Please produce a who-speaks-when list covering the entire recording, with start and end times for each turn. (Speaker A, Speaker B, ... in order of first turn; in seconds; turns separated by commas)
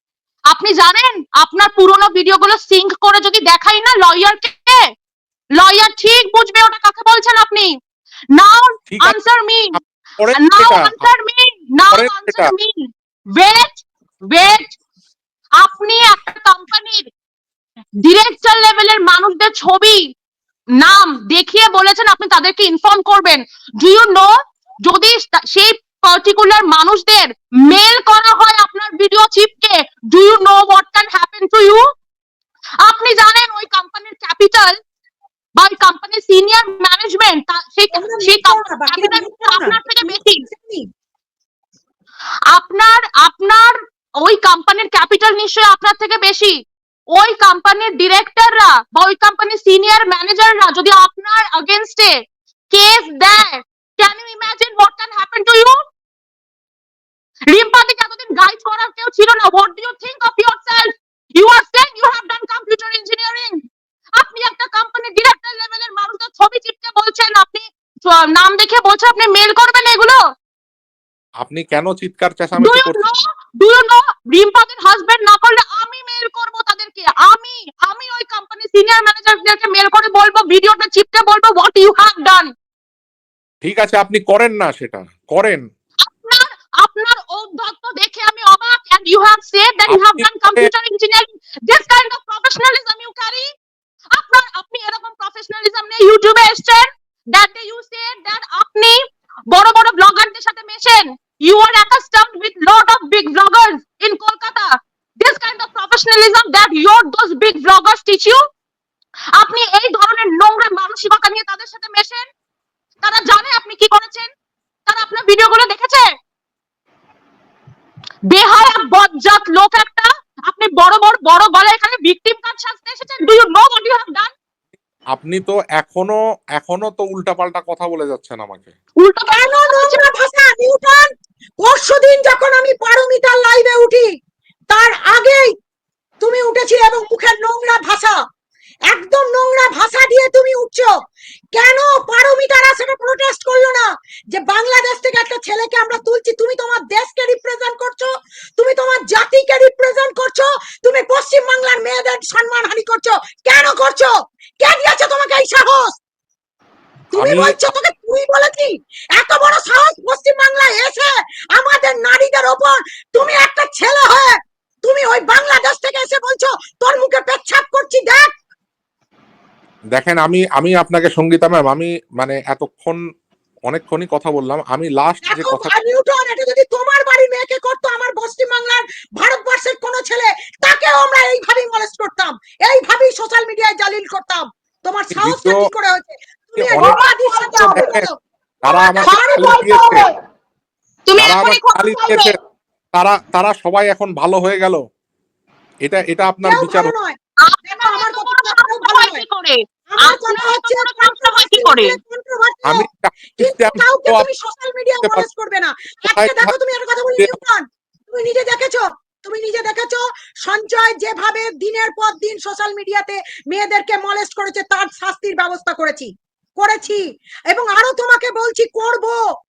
Speaker A: 0.5-4.8, Speaker A: 5.6-7.7, Speaker A: 8.4-9.8, Speaker B: 8.9-9.2, Speaker B: 9.7-11.1, Speaker A: 10.4-14.8, Speaker B: 11.9-12.5, Speaker A: 15.6-17.1, Speaker A: 18.0-20.1, Speaker A: 20.8-24.3, Speaker A: 24.8-31.8, Speaker A: 32.8-34.8, Speaker A: 35.6-40.4, Speaker C: 37.9-40.9, Speaker A: 42.5-46.6, Speaker A: 47.1-52.2, Speaker A: 52.7-55.8, Speaker A: 57.5-63.6, Speaker A: 64.2-70.2, Speaker B: 71.4-73.0, Speaker A: 72.6-82.5, Speaker B: 83.6-85.6, Speaker A: 86.0-93.5, Speaker B: 89.9-90.7, Speaker A: 94.2-108.4, Speaker A: 109.4-112.3, Speaker A: 113.0-114.3, Speaker A: 114.9-116.1, Speaker A: 118.3-124.3, Speaker B: 125.1-128.7, Speaker A: 129.0-130.1, Speaker C: 129.3-131.1, Speaker C: 131.6-134.1, Speaker C: 134.7-135.5, Speaker C: 136.2-138.2, Speaker C: 138.9-140.9, Speaker C: 141.5-155.9, Speaker C: 157.1-168.3, Speaker B: 157.1-157.6, Speaker B: 169.9-173.0, Speaker B: 173.7-175.7, Speaker C: 175.3-188.1, Speaker B: 185.1-185.7, Speaker B: 186.6-187.0, Speaker D: 186.9-187.8, Speaker B: 187.6-188.1, Speaker B: 188.6-190.0, Speaker C: 188.7-189.7, Speaker D: 189.1-190.1, Speaker D: 191.1-192.3, Speaker B: 191.2-192.4, Speaker B: 192.9-194.8, Speaker B: 195.8-196.9, Speaker C: 196.4-197.2, Speaker A: 197.5-202.0, Speaker C: 197.7-199.2, Speaker C: 199.9-202.8, Speaker B: 202.7-204.3, Speaker C: 203.4-219.2, Speaker B: 206.1-206.5